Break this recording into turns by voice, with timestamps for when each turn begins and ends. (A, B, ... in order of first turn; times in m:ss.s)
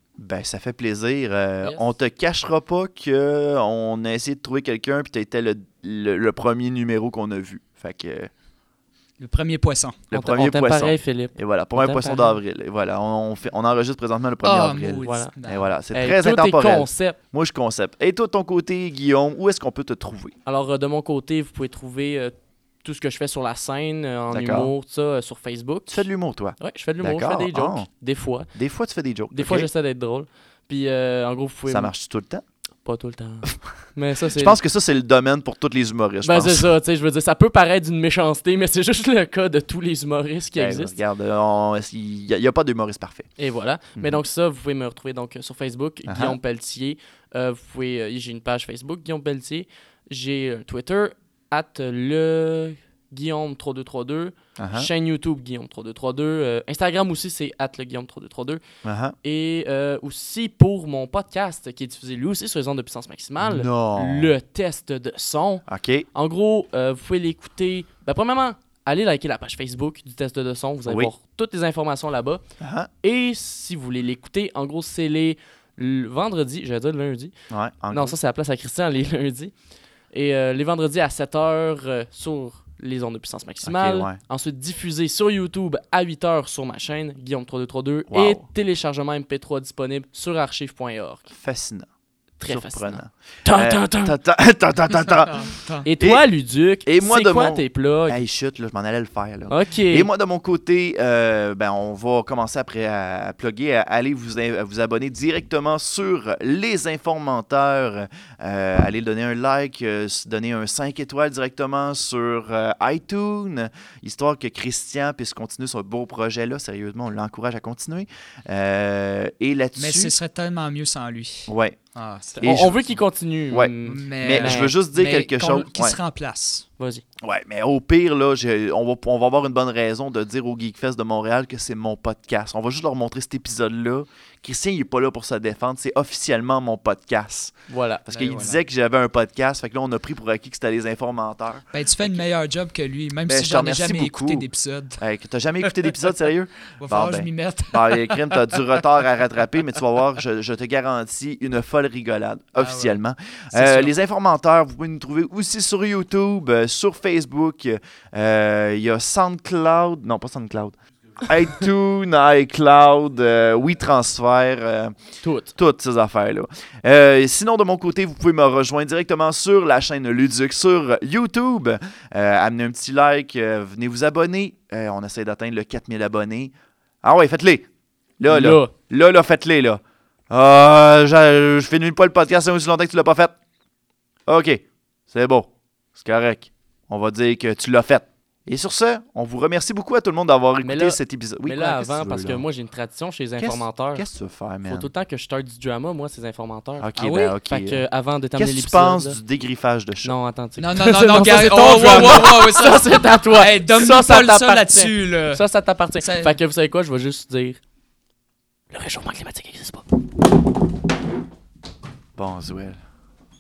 0:00.2-0:08.3 A
0:09.2-0:10.0 B
0:10.1-0:20.4 A
0:10.1-0:12.4 C
0:14.4-0:15.6 B
0:15.0-0:15.3 C
0:15.9-0:17.2 C
0:20.5-0:26.1 C
0:24.3-0:24.7 A
0:25.9-0:27.9 A
0:26.6-0:28.5 C
0:28.5-0:29.7 A
0:29.3-0:31.9 C
0:31.7-0:32.4 A
0:32.8-0:34.6 C
0:34.3-0:36.7 A
0:36.2-0:41.0 C
0:40.6-0:43.3 A
0:43.4-0:58.6 C
0:46.1-0:46.4 A
0:54.6-0:54.9 A
0:58.8-0:59.2 A
0:59.2-1:12.4 C
1:03.4-1:04.3 A
1:05.7-1:06.1 A
1:10.9-1:11.1 A
1:12.6-1:12.9 A
1:13.0-1:17.3 C
1:17.5-1:18.2 A
1:17.9-1:19.5 C
1:20.1-1:31.3 C
1:23.6-1:24.2 A
1:28.1-1:28.4 A
1:31.3-1:31.9 A
1:32.4-1:34.2 C
1:32.5-1:36.3 A
1:35.3-1:35.9 B
1:35.9-1:38.2 C
1:36.8-2:00.1 A
1:39.5-1:40.1 C
1:59.8-2:02.7 B
2:01.5-2:01.8 A
2:02.4-2:03.0 A
2:02.4-2:04.7 C
2:03.5-2:06.0 A
2:03.8-2:06.7 B
2:06.8-2:07.0 C
2:07.2-2:22.2 A
2:17.7-2:18.1 C
2:18.1-2:18.6 B
2:21.7-2:25.0 B
2:23.3-2:24.5 A
2:25.0-2:45.0 A
2:26.8-2:28.7 B
2:32.6-2:33.0 B
2:33.5-2:33.9 B
2:45.2-2:45.5 C
2:45.6-2:57.7 A
2:58.2-3:03.3 A
2:58.3-2:58.7 C
3:04.3-3:12.4 A
3:10.6-3:14.1 C
3:13.4-3:14.9 A
3:14.7-3:16.9 C
3:16.8-3:17.8 A
3:17.0-3:17.4 B
3:17.5-3:19.2 C
3:18.4-3:20.2 A
3:20.0-3:27.6 C
3:20.6-3:25.4 B
3:26.0-3:26.3 B
3:28.7-3:29.9 C
3:32.2-3:32.8 A